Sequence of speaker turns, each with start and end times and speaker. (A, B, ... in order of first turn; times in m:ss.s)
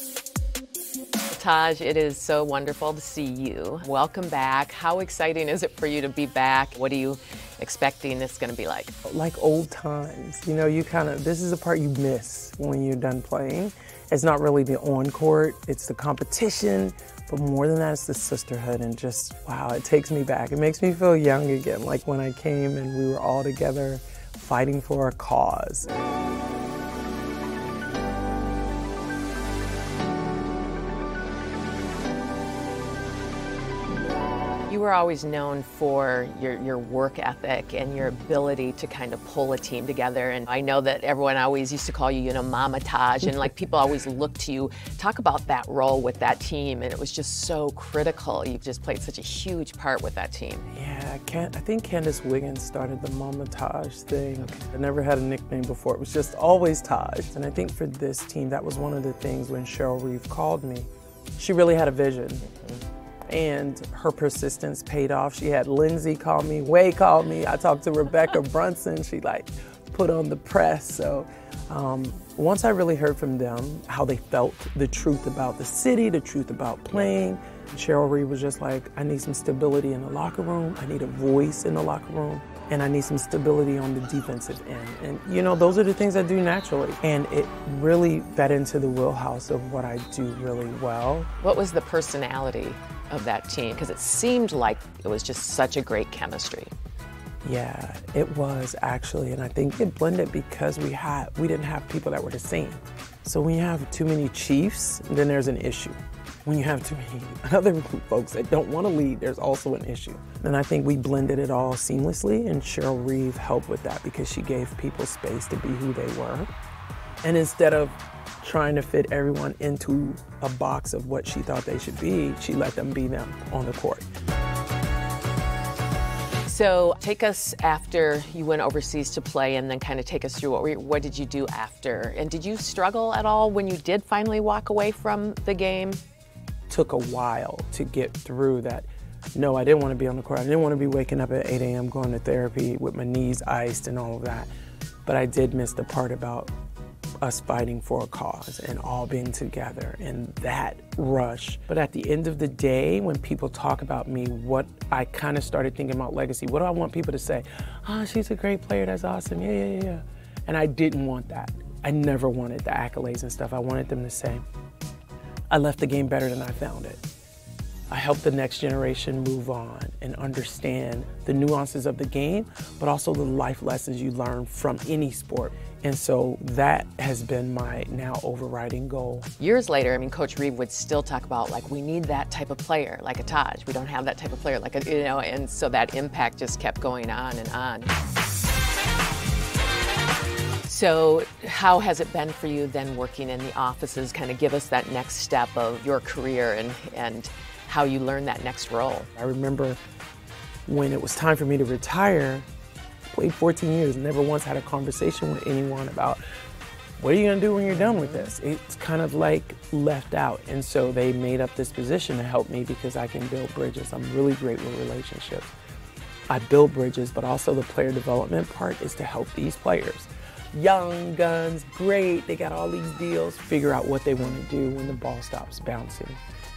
0:01.3-0:08.9 A
0:09.0-0:25.9 B
0:34.7-0:50.7 A
0:50.7-1:02.6 B
1:03.3-1:31.3 B
1:31.4-1:36.7 A
1:37.4-1:56.5 B
1:57.2-2:04.0 B
2:06.4-2:16.0 A
2:16.7-2:24.5 B
2:25.0-2:26.5 B
2:27.2-2:44.4 B
2:45.5-2:47.0 B
2:47.9-2:59.3 B
2:59.4-3:07.9 A
3:10.6-3:19.1 A
3:19.2-3:19.8 B
3:20.6-3:22.5 B
3:23.1-3:26.2 B
3:27.0-3:35.5 B
3:27.7-3:28.3 A
3:36.3-3:46.2 B